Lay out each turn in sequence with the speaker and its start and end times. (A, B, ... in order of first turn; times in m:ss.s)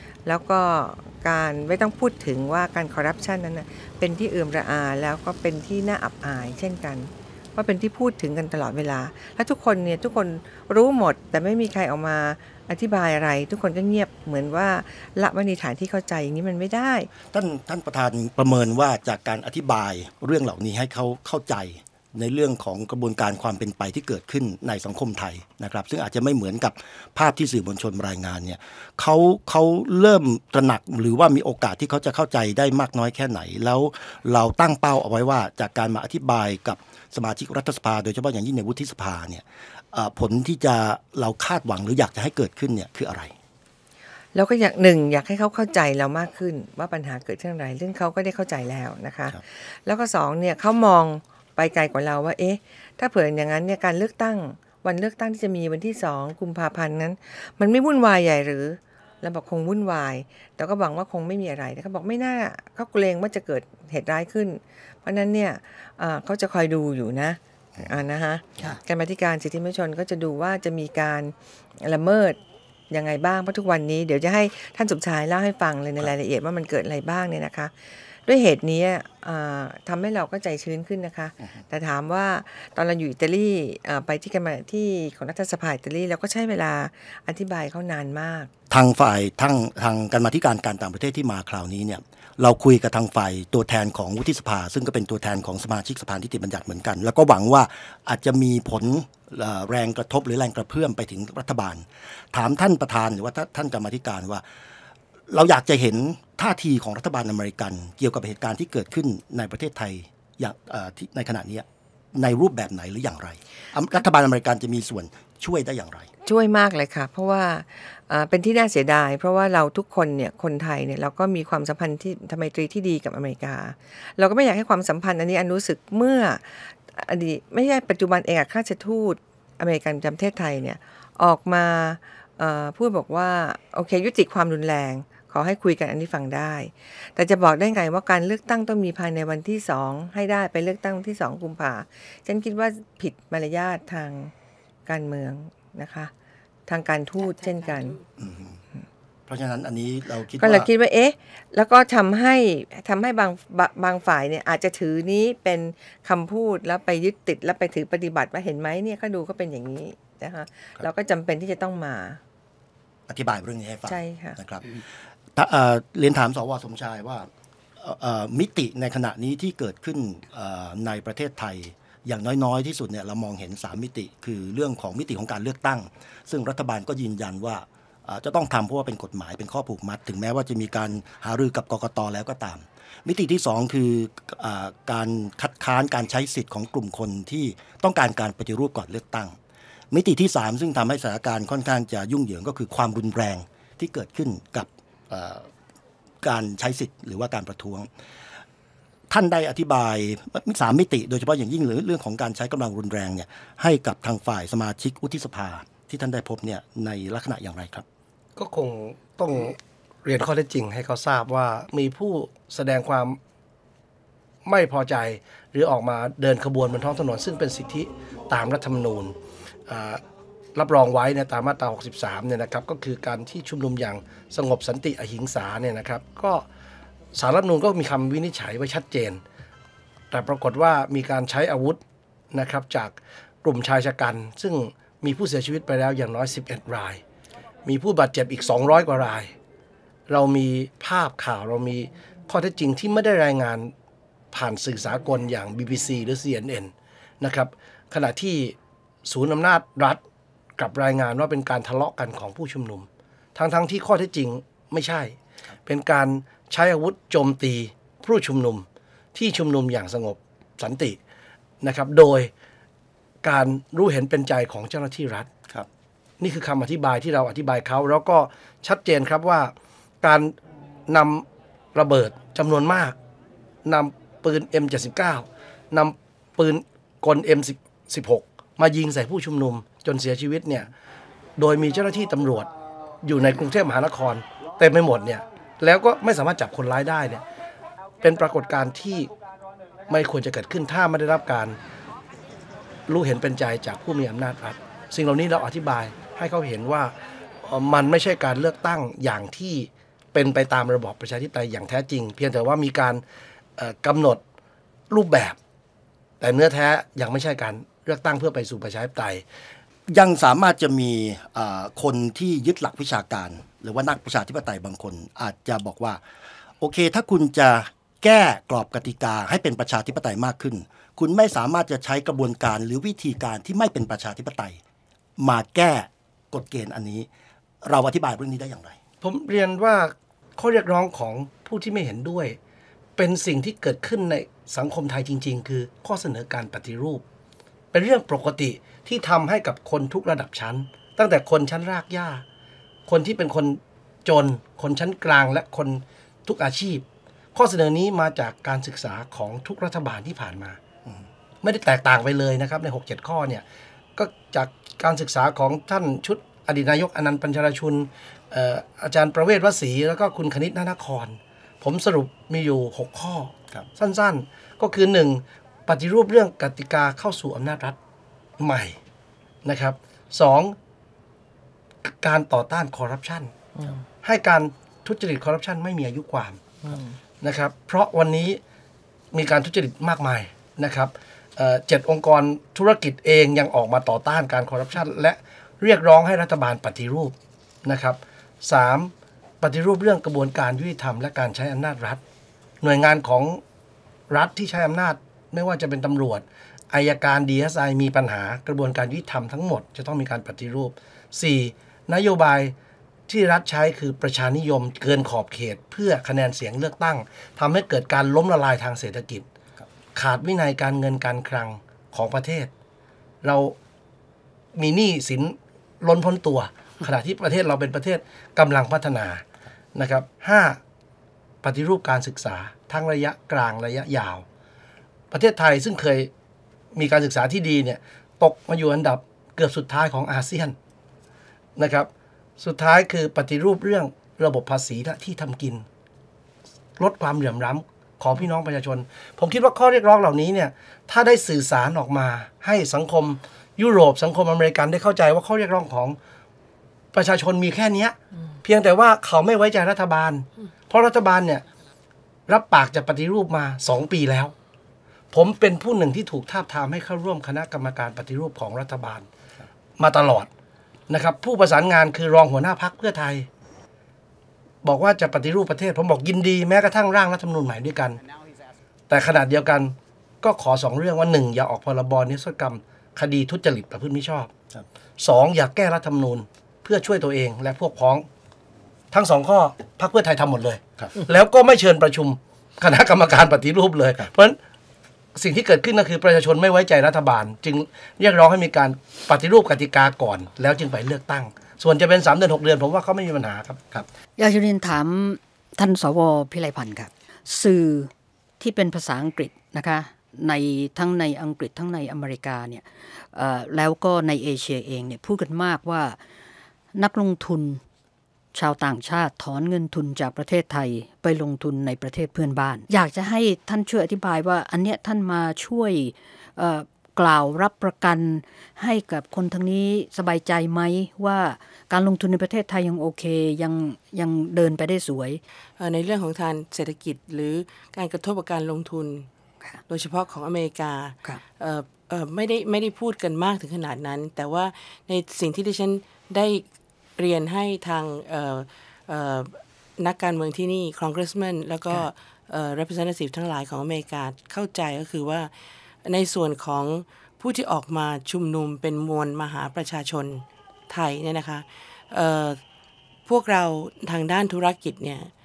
0:00.3-0:17.1 A
0:17.3-0:43.3 B
0:44.3-1:12.4 A
1:12.9-1:28.5 A
1:28.7-1:44.4 B
1:45.3-1:56.1 B
1:56.2-2:24.3 A
2:24.9-2:26.1 A
2:26.7-2:28.0 A
2:27.3-2:27.9 C
2:28.2-2:28.6 B
2:29.3-2:30.7 B
2:30.4-2:42.2 A
2:43.1-2:44.8 B
2:43.9-2:44.4 A
2:45.4-2:47.3 B
2:47.8-3:09.4 B
3:09.9-3:15.5 B
3:16.2-3:17.9 B
3:19.1-3:27.8 B
3:28.4-3:33.2 D
3:34.4-3:39.2 D
3:39.7-3:40.0 D
3:40.6-3:46.5 D
3:47.1-3:49.2 D
3:50.1-3:51.8 D
3:52.3-3:57.0 D
3:57.7-3:59.3 D
4:00.1-4:03.7 D
4:04.3-4:10.0 D
4:10.6-4:21.0 D
4:21.6-4:22.3 D
4:23.2-4:25.3 D
4:26.2-4:30.3 D
4:30.9-4:33.0 D
4:33.6-4:40.7 D
4:41.4-4:42.5 D
4:43.0-4:47.2 D
4:48.0-4:49.1 D
4:49.9-4:51.6 D
4:52.9-5:03.0 D
5:03.6-5:04.2 D
5:04.9-5:05.4 D
5:06.2-5:09.2 D
5:09.9-5:16.0 B
5:16.6-5:24.6 B
5:25.2-5:27.1 B
5:27.6-5:28.8 B
5:29.0-5:32.4 D
5:33.0-5:37.0 D
5:37.7-5:42.2 D
5:42.9-5:50.6 D
5:51.4-5:53.4 D
5:54.0-6:07.8 D
6:08.4-6:08.8 D
6:09.4-6:10.6 D
6:11.9-6:13.3 D
6:13.6-6:13.8 A
6:14.0-6:16.4 D
6:16.6-6:17.0 A
6:17.2-6:18.4 D
6:19.1-6:27.1 D
6:27.6-6:32.0 D
6:32.6-6:33.4 D
6:34.1-6:42.6 D
6:43.1-6:49.3 D
6:49.9-6:52.5 D
6:53.2-6:53.6 D
6:54.6-6:59.2 D
6:59.8-7:00.6 D
7:01.4-7:04.2 D
7:05.1-7:06.1 D
7:06.8-7:10.6 D
7:11.6-7:15.6 D
7:16.8-7:26.0 D
7:26.9-7:31.4 D
7:32.3-7:34.3 D
7:35.1-7:39.1 D
7:39.8-7:40.3 D
7:40.9-7:43.3 D
7:44.6-7:48.0 D
7:48.9-7:54.3 D
7:55.0-7:58.1 D
7:58.9-8:04.4 D
8:05.2-8:13.6 D
8:14.2-8:26.0 E
8:26.8-8:27.6 E
8:28.3-8:45.2 E
8:45.6-8:49.1 C
8:49.7-8:56.5 C
8:57.0-9:05.3 C
9:05.8-9:12.4 C
9:13.1-9:15.1 C